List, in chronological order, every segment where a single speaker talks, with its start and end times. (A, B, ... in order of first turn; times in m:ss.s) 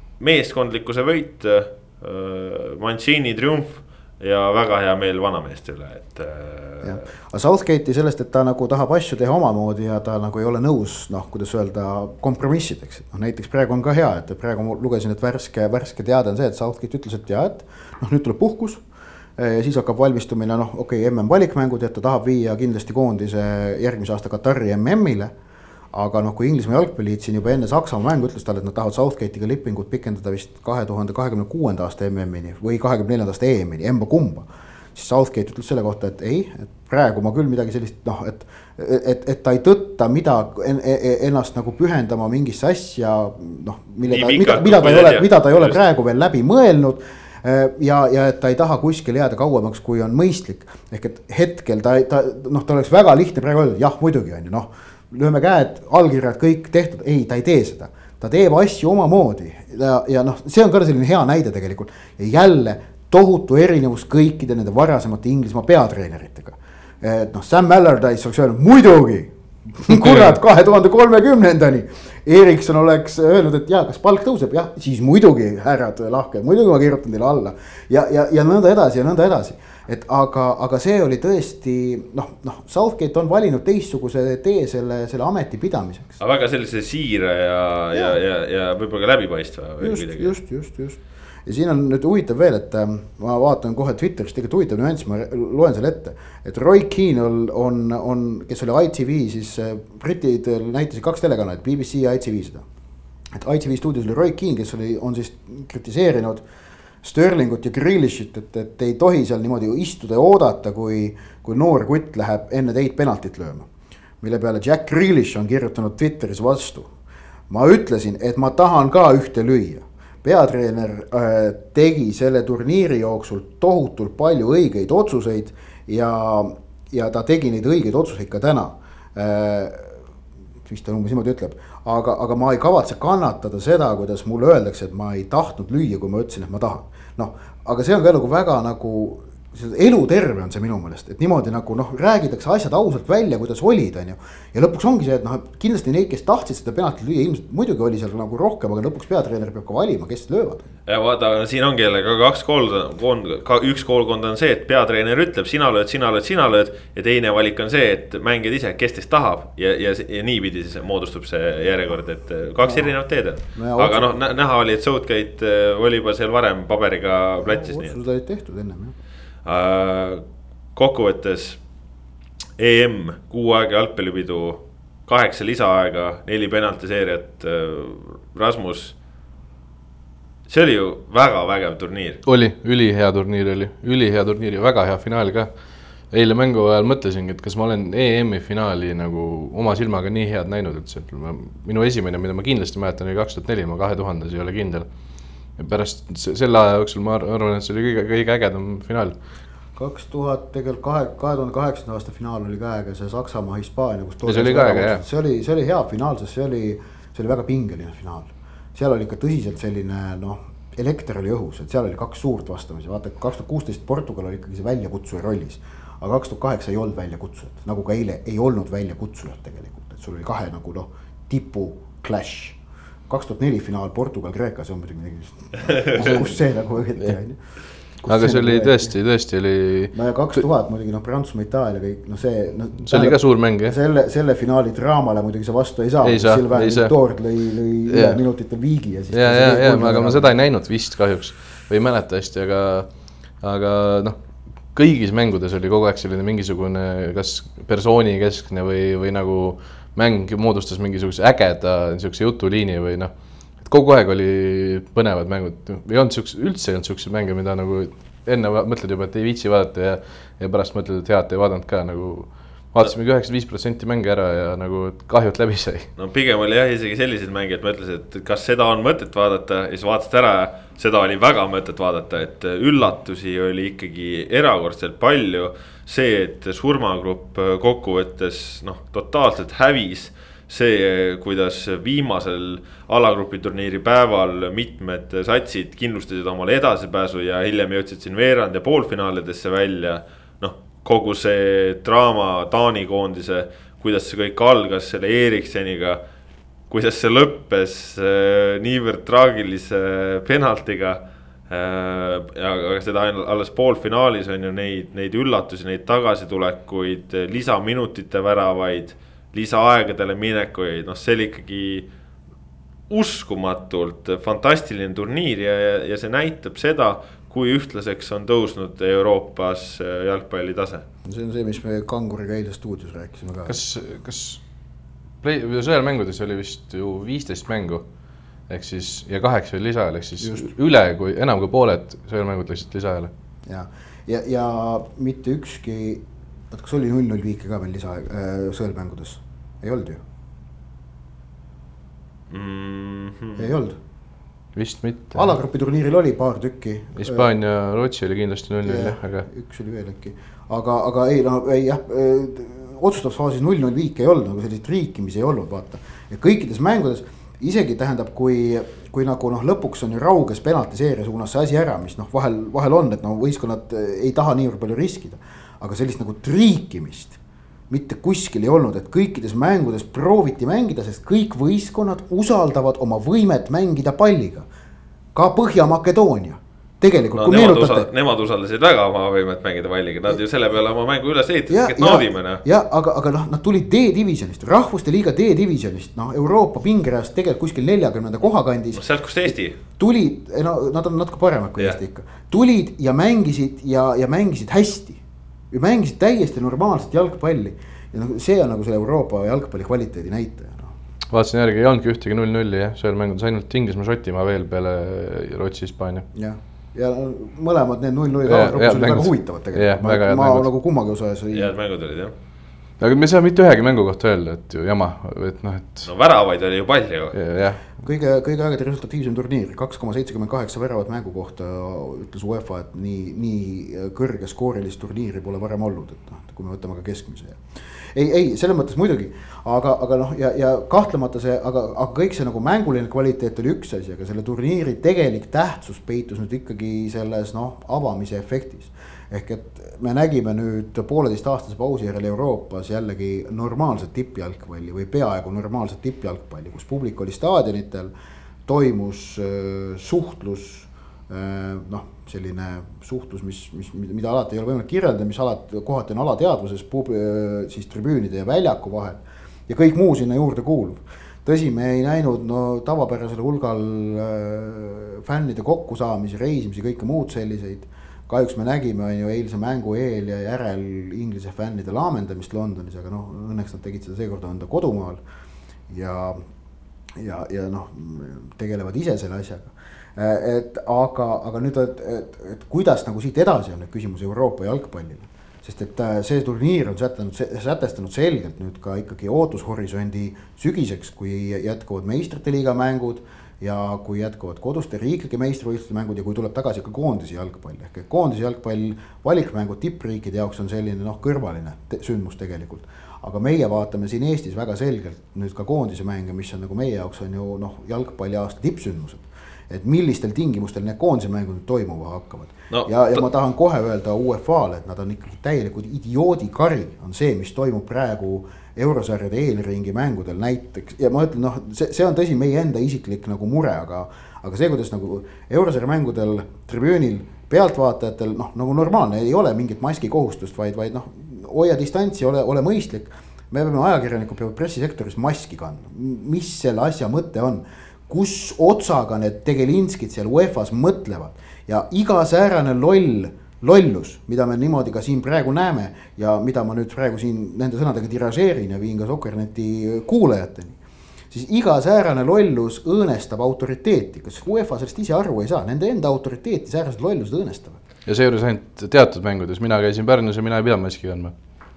0:00.2-0:07.0 A
0:06.8-0:18.8 B
0:19.4-0:25.3 B
0:25.9-1:26.2 B
0:44.0-0:45.8 A
1:26.2-1:30.3 A
1:29.8-1:42.6 B
1:43.3-1:46.4 B
1:47.0-1:53.7 B
1:54.2-1:56.9 B
1:57.5-2:10.0 B
2:10.6-2:30.7 B
2:30.9-2:48.0 A
2:42.6-2:42.9 B
2:43.5-2:44.1 B
2:47.4-2:49.0 B
2:49.4-2:51.6 A
2:52.6-2:59.0 A
3:00.5-3:02.2 A
3:02.2-3:14.9 C
3:15.4-3:19.2 C
3:19.8-3:49.0 B
3:24.3-3:25.0 C
3:48.1-3:50.4 C
3:49.9-4:00.3 B
3:52.8-3:53.8 C
3:56.0-3:57.0 C
3:57.9-3:58.2 C
3:59.1-4:25.9 C
4:26.0-4:56.0 A
4:56.7-5:11.9 A
5:12.9-5:20.8 A
5:21.1-5:23.6 B
5:23.5-5:24.4 C
5:25.2-5:27.9 C
5:28.5-5:33.1 C
5:30.2-5:30.5 B
5:33.5-5:40.0 B
5:42.3-5:43.5 A
5:43.4-5:43.8 B
5:44.6-5:45.3 C
5:45.1-5:47.3 B
5:47.0-5:49.3 C
5:48.6-6:07.2 B
6:07.7-6:14.5 B
6:15.1-6:17.9 B
6:17.2-6:22.4 A
6:21.5-6:40.8 B
6:28.7-6:29.6 A
6:41.1-6:46.1 C
6:46.1-6:51.5 B
6:48.3-6:50.5 C
6:51.3-6:52.1 A
6:52.8-6:55.9 C
6:55.8-6:57.2 A
6:57.1-6:57.6 C
6:57.8-7:27.9 B
7:28.5-7:55.0 B
7:55.7-7:56.2 B
7:57.0-9:10.6 B
8:32.5-8:33.0 A
9:11.1-9:17.6 B
9:17.9-9:21.1 C